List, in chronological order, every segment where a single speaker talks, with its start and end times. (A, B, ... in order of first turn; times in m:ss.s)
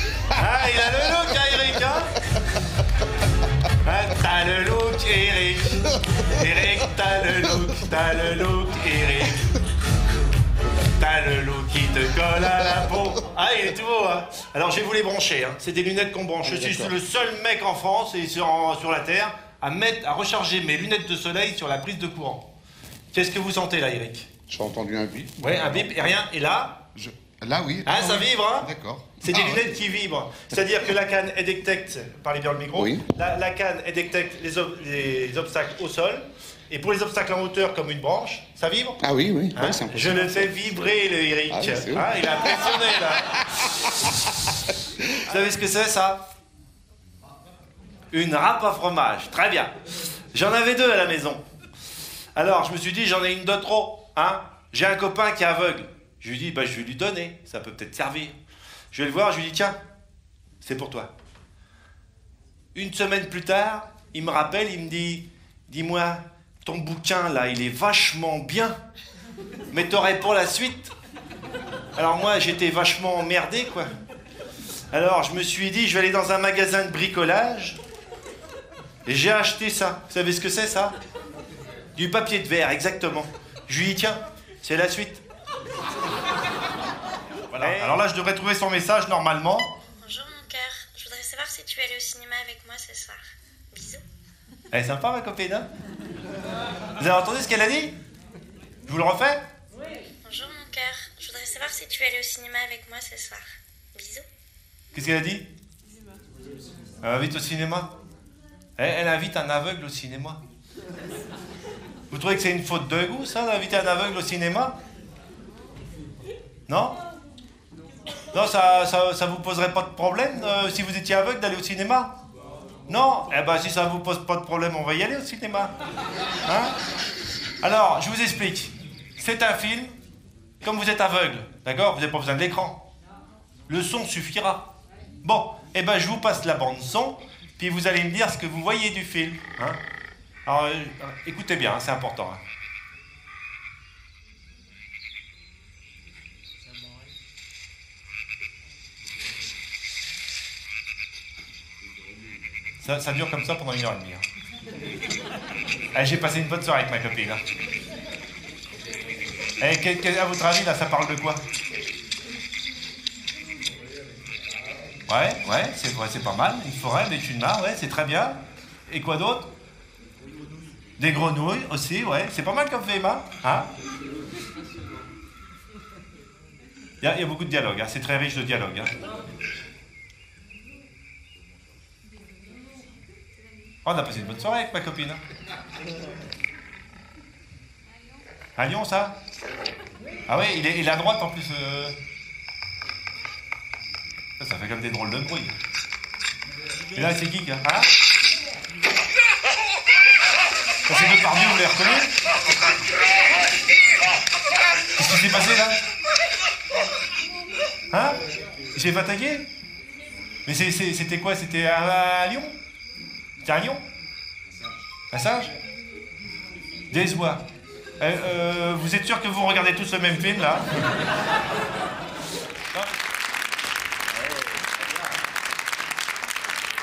0:00.3-0:02.2 A
0:03.8-0:09.5 A
0:10.8-0:22.5 A
0:16.4-0:16.9 B
0:23.1-0:24.3 A
0:24.5-0:25.9 B
0:25.4-0:26.8 A
0:26.9-0:29.7 B
0:27.8-0:39.0 A
0:32.8-0:33.0 B
0:39.0-0:40.7 B
0:39.5-0:43.4 A
0:41.5-0:45.2 B
0:45.2-0:46.2 A
0:48.1-0:49.7 A
0:50.3-0:51.4 A
0:52.4-0:58.4 A
0:58.9-0:59.8 A
1:00.6-1:01.1 A
1:02.7-1:08.8 A
1:09.7-1:10.9 A
1:12.0-1:13.9 A
1:14.9-1:17.8 A
1:19.0-1:21.0 A
1:22.0-1:25.2 A
1:27.5-1:29.7 A
1:27.6-1:27.9 C
1:30.0-1:33.2 C
1:33.7-1:34.0 C
1:34.7-1:35.7 A
1:37.0-1:37.9 A
1:38.8-1:39.4 A
1:40.2-1:44.2 C
1:44.9-1:45.5 A
1:47.0-1:47.9 A
1:48.8-1:50.4 A
1:52.1-1:54.7 A
1:56.7-1:57.0 A
1:58.3-2:02.1 A
2:02.9-2:05.7 A
2:06.4-2:06.7 A
2:07.6-2:09.9 A
2:10.6-2:12.8 A
2:13.7-2:14.7 A
2:15.2-2:19.8 A
2:20.4-2:22.4 A
2:32.8-2:34.2 A
2:35.9-2:37.4 A
2:39.6-2:41.4 A
2:45.1-2:49.5 A
2:51.0-2:53.7 A
2:57.0-2:58.9 A
3:03.8-3:05.2 A
3:08.6-3:09.2 A
3:10.3-3:11.9 A
3:14.4-3:15.6 A
3:16.9-3:17.9 A
3:20.9-3:22.1 A
3:25.0-3:25.8 A
3:27.9-3:28.2 A
3:28.7-3:29.5 A
3:30.4-3:32.6 A
3:33.4-3:33.8 A
3:35.1-3:35.5 A
3:36.9-3:37.4 A
3:38.0-3:40.8 A
3:44.1-3:45.2 A